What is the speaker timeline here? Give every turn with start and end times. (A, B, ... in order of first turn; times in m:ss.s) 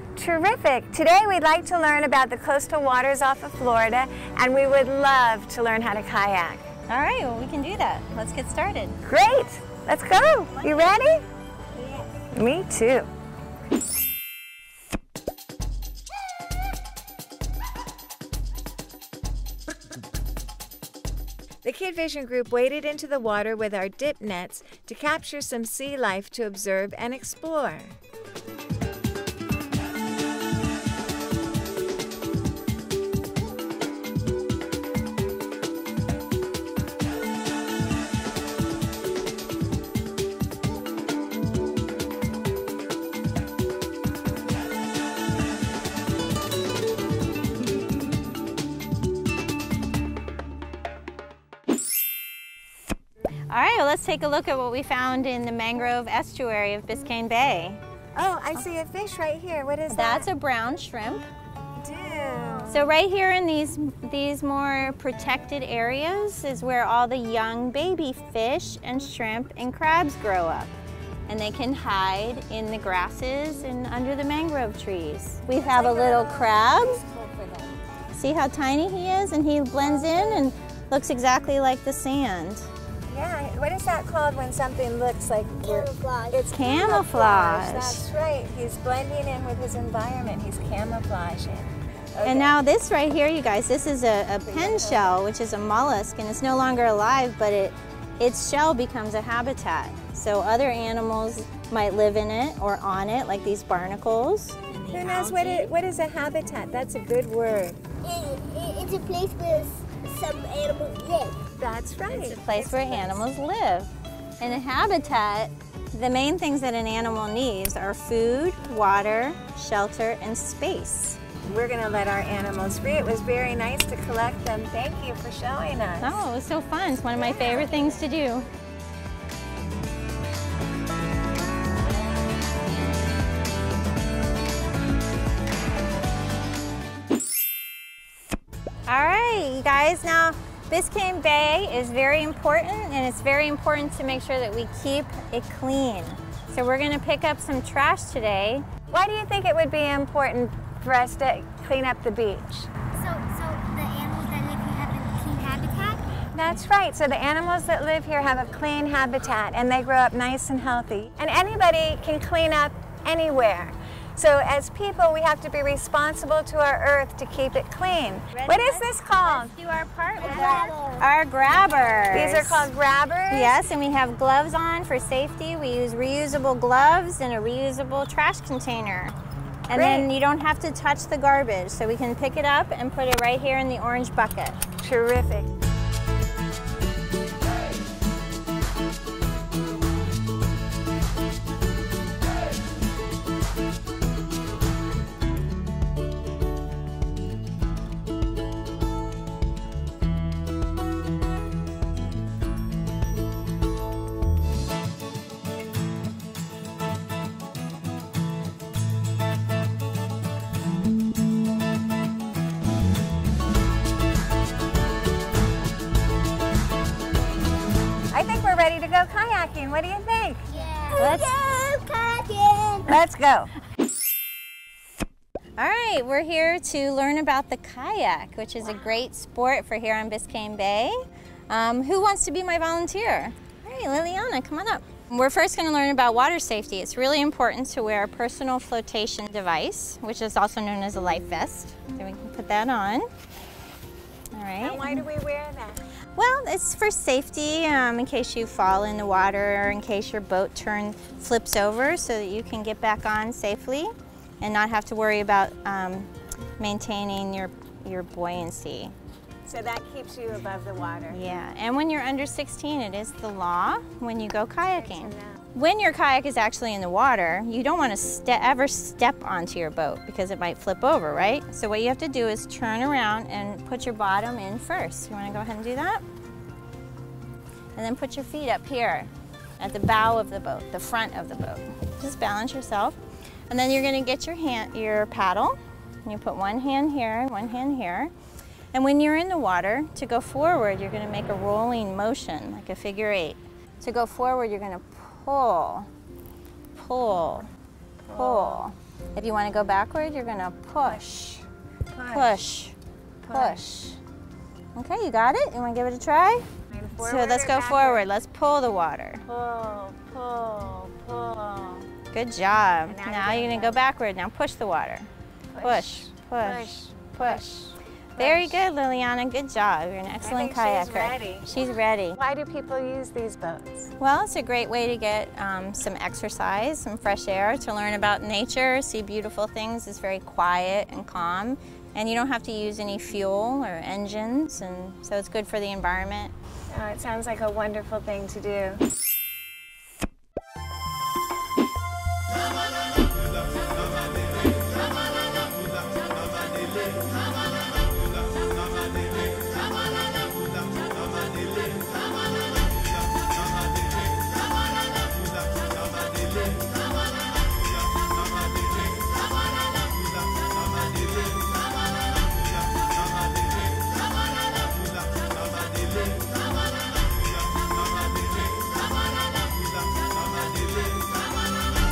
0:00.2-0:06.7 A
0:06.9-0:09.0 B
0:09.0-0:11.2 A
0:11.8-0:12.1 C
0:12.3-0:13.1 A
0:21.6-0:28.0 A
0:53.5-0:57.8 B
0:58.2-1:00.3 A
0:59.9-1:01.3 B
1:01.8-1:02.9 A
1:02.7-1:10.7 B
1:11.3-1:17.0 B
1:15.6-1:17.8 C
1:18.1-1:22.7 B
1:23.1-1:32.6 A
1:25.6-1:26.4 C
1:26.5-1:28.0 B
1:32.2-1:45.7 B
1:34.4-1:35.2 A
1:44.9-1:47.8 A
1:48.0-1:51.4 C
1:51.6-1:53.2 A
1:52.1-2:01.2 B
2:01.5-2:06.2 A
2:06.0-2:08.5 B
2:07.3-2:07.8 A
2:18.9-2:28.7 B
2:28.9-2:32.7 A
2:33.0-2:36.0 C
2:36.3-2:49.5 A
2:48.3-2:52.7 B
2:50.2-2:51.1 C
2:52.1-2:53.6 A
2:53.3-2:59.2 B
2:59.7-3:04.6 B
2:59.7-3:00.1 A
3:04.8-3:05.5 A
3:38.1-3:40.4 A
3:40.5-3:42.9 C
3:41.0-3:41.3 B
3:42.9-3:43.5 A
3:45.6-4:03.1 B
4:04.3-4:05.1 B
4:04.6-4:05.8 A
4:06.2-4:18.9 B
4:19.5-4:21.2 A
4:21.1-4:36.0 B
4:24.7-4:25.4 A
4:37.8-4:43.0 B
4:43.5-4:48.1 B
4:48.7-4:55.9 B
4:56.7-4:57.5 B
4:58.0-4:58.6 A
4:58.1-5:01.4 B
5:00.8-5:01.3 A
5:01.9-5:02.5 A
5:02.1-5:02.8 B
5:03.2-5:03.7 A
5:03.3-5:04.0 B
5:04.8-5:09.2 B
5:06.7-5:08.1 A
5:09.3-5:11.9 A
5:12.1-5:15.1 B
5:12.8-5:13.9 A
5:15.6-5:18.6 A
5:15.6-5:17.4 B
5:18.2-5:22.2 B
5:20.2-5:23.9 A
5:24.0-5:36.3 B
5:36.7-5:38.8 A